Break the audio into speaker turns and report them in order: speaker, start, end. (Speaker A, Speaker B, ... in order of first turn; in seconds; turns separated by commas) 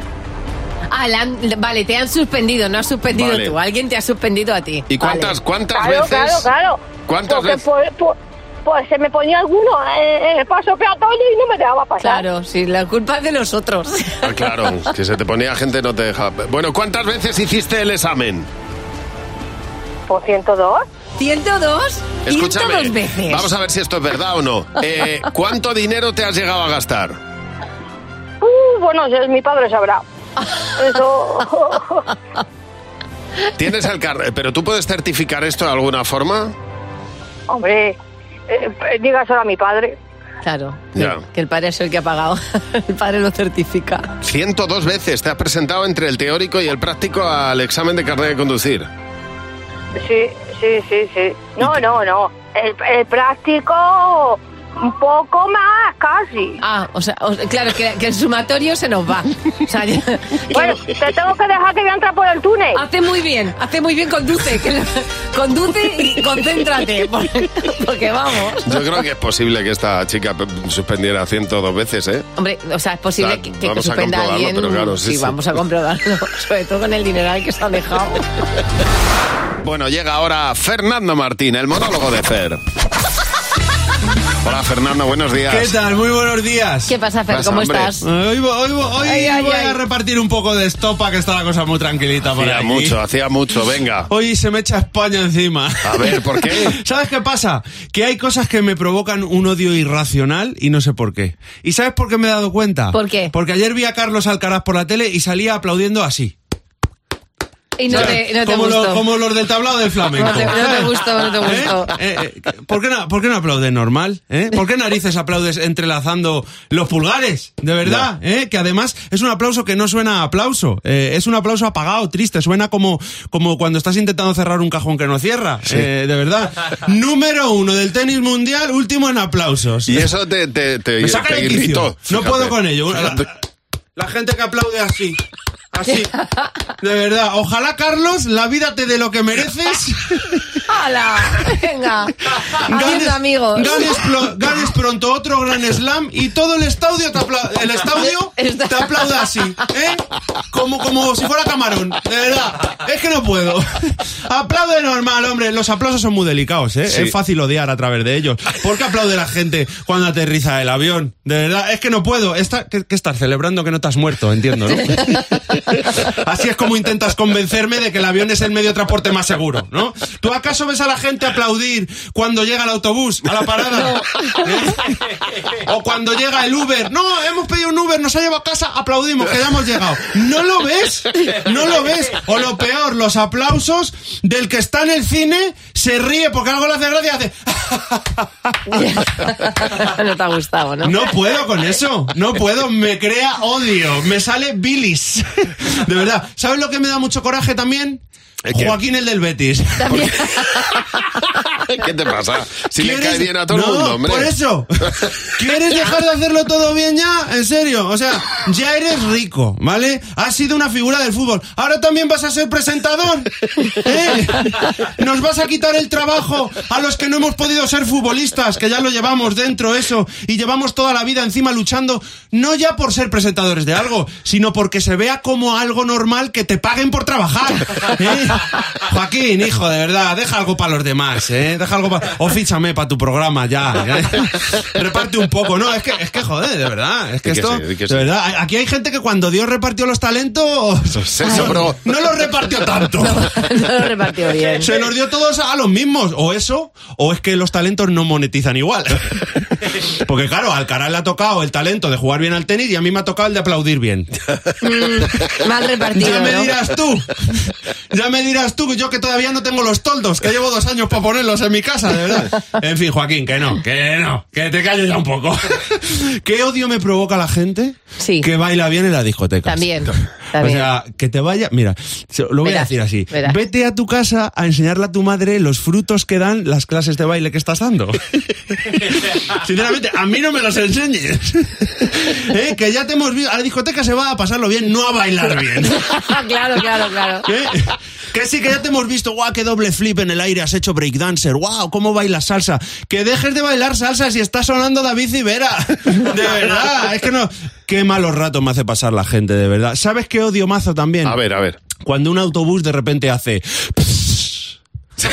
Speaker A: 0.9-5.3, Speaker B: 3.1-3.5, Speaker B: 4.9-6.5, Speaker C: 5.7-12.2, Speaker B: 7.1-7.6, Speaker A: 12.0-14.3, Speaker B: 14.2-18.5, Speaker C: 20.1-20.8, Speaker A: 21.2-23.5, Speaker B: 22.2-27.2, Speaker C: 28.4-30.0, Speaker C: 30.8-31.8, Speaker B: 33.6-36.5, Speaker C: 37.5-38.0, Speaker C: 38.5-40.0, Speaker A: 40.4-44.1, Speaker B: 40.9-41.2, Speaker B: 44.2-48.9, Speaker C: 50.0-56.6, Speaker A: 56.6-60.6, Speaker C: 60.5-62.8, Speaker A: 62.7-69.0, Speaker B: 68.6-72.2, Speaker A: 72.4-78.2, Speaker B: 73.2-75.4, Speaker B: 79.6-82.6, Speaker B: 84.4-85.7, Speaker D: 85.5-86.9, Speaker A: 86.9-88.0, Speaker B: 87.3-87.9, Speaker D: 88.0-93.0, Speaker A: 89.0-89.8, Speaker B: 92.4-94.1, Speaker D: 94.1-106.3, Speaker B: 95.8-96.8, Speaker A: 102.9-103.3, Speaker A: 107.8-109.0, Speaker D: 107.9-130.1, Speaker A: 110.2-111.9, Speaker B: 129.9-133.3, Speaker D: 131.0-133.3, Speaker D: 133.9-135.2, Speaker D: 135.7-136.1, Speaker A: 135.9-136.5, Speaker D: 136.8-140.4, Speaker A: 140.7-142.2, Speaker D: 142.7-174.8, Speaker A: 142.7-144.0, Speaker A: 148.0-149.3, Speaker B: 156.9-157.1, Speaker A: 164.9-165.2, Speaker A: 173.8-174.4, Speaker D: 175.6-188.3, Speaker A: 188.7-191.1, Speaker D: 190.8-200.0, Speaker B: 198.5-198.8, Speaker A: 199.8-200.6, Speaker B: 201.7-204.3, Speaker D: 202.8-243.3, Speaker B: 237.2-238.1, Speaker B: 240.9-242.3, Speaker A: 241.2-241.6, Speaker A: 243.0-244.7, Speaker D: 244.5-249.1, Speaker D: 250.0-254.1, Speaker A: 254.6-256.5, Speaker D: 255.9-278.1, Speaker A: 268.0-268.3, Speaker A: 269.4-270.7, Speaker A: 272.4-273.4, Speaker D: 278.7-285.9, Speaker A: 285.7-287.3, Speaker D: 287.2-301.2, Speaker B: 301.0-301.6, Speaker D: 301.7-304.6